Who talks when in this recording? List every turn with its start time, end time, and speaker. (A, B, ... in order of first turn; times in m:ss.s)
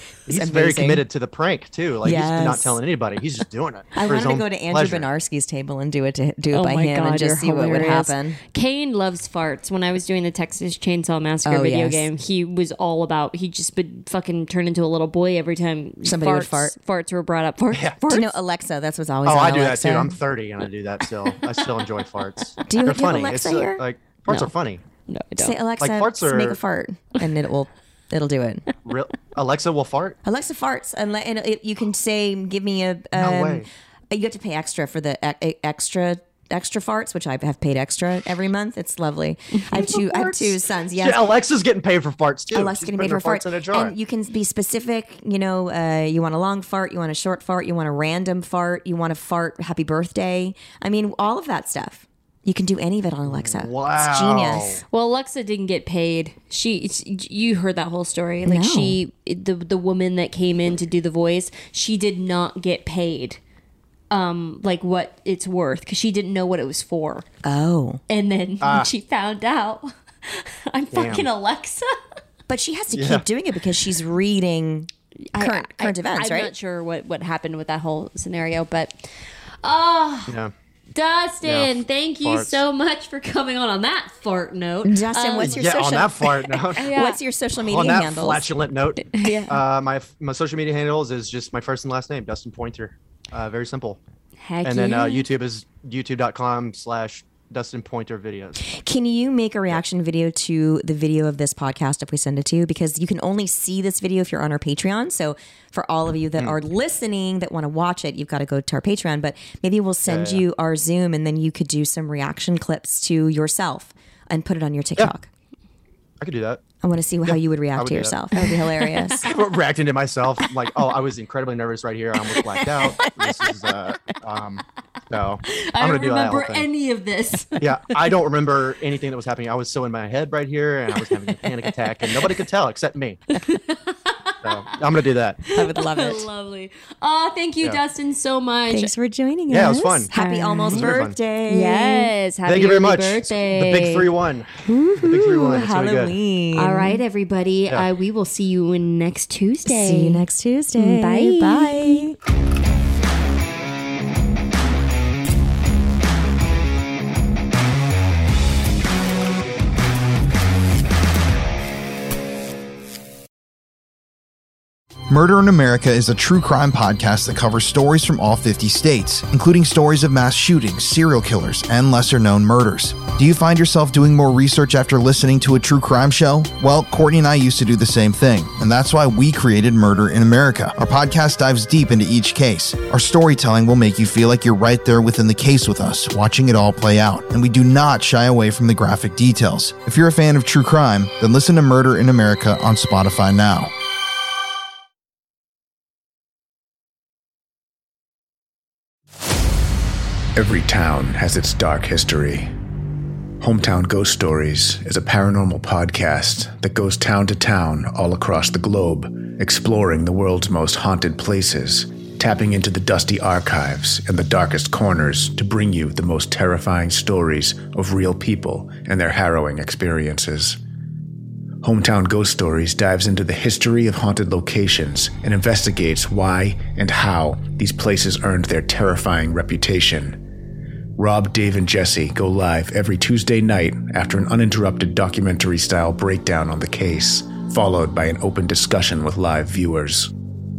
0:00.3-0:01.0 A
0:00.3-0:05.1 B
0:02.0-0:02.8 A
0:04.0-0:08.4 A
0:06.5-0:18.3 C
0:11.4-0:12.1 A
0:16.0-0:16.8 A
0:17.7-0:18.0 B
0:18.1-0:20.2 A
0:19.2-0:24.8 B
0:22.7-0:23.8 A
0:25.1-0:25.6 C
0:25.4-0:28.7 A
0:25.8-0:26.6 B
0:28.8-0:30.2 B
0:30.2-0:41.3 A
0:33.1-0:33.7 B
0:39.8-0:43.9 B
0:42.5-0:54.8 A
0:53.3-0:54.8 B
0:54.9-1:03.4 C
0:58.5-0:59.0 A
1:04.1-1:07.3 C
1:07.4-1:08.0 A
1:08.1-1:12.0 C
1:08.6-1:08.9 B
1:10.9-1:11.3 B
1:12.5-1:16.5 A
1:12.9-1:13.2 B
1:15.3-1:19.1 C
1:19.6-1:20.4 C
1:20.9-1:25.8 C
1:21.4-1:22.6 B
1:24.8-1:28.5 A
1:25.4-1:26.9 B
1:26.7-1:27.2 C
1:27.6-1:34.0 B
1:29.1-1:29.6 C
1:34.4-1:35.3 C
1:34.6-1:38.8 B
1:38.7-1:55.3 A
1:50.1-1:50.4 B
1:56.2-1:56.6 B
1:56.8-1:59.3 A
1:57.3-1:58.2 B
1:58.4-1:59.3 C
1:59.2-2:06.7 B
2:02.4-2:03.1 C
2:05.5-2:07.7 C
2:07.6-2:13.2 B
2:13.3-2:14.5 C
2:14.4-2:15.4 B
2:15.5-2:18.9 C
2:15.6-2:16.3 A
2:18.7-2:22.1 A
2:19.5-2:20.1 B
2:20.1-2:24.1 C
2:20.7-2:21.2 B
2:22.5-2:26.2 B
2:24.6-2:27.0 A
2:26.6-2:30.2 C
2:29.6-2:32.2 A
2:30.8-2:32.1 C
2:45.1-3:13.7 D
3:20.4-3:22.5 E
3:23.4-3:40.6 E
3:41.6-3:50.2 E
3:51.0-4:00.1 E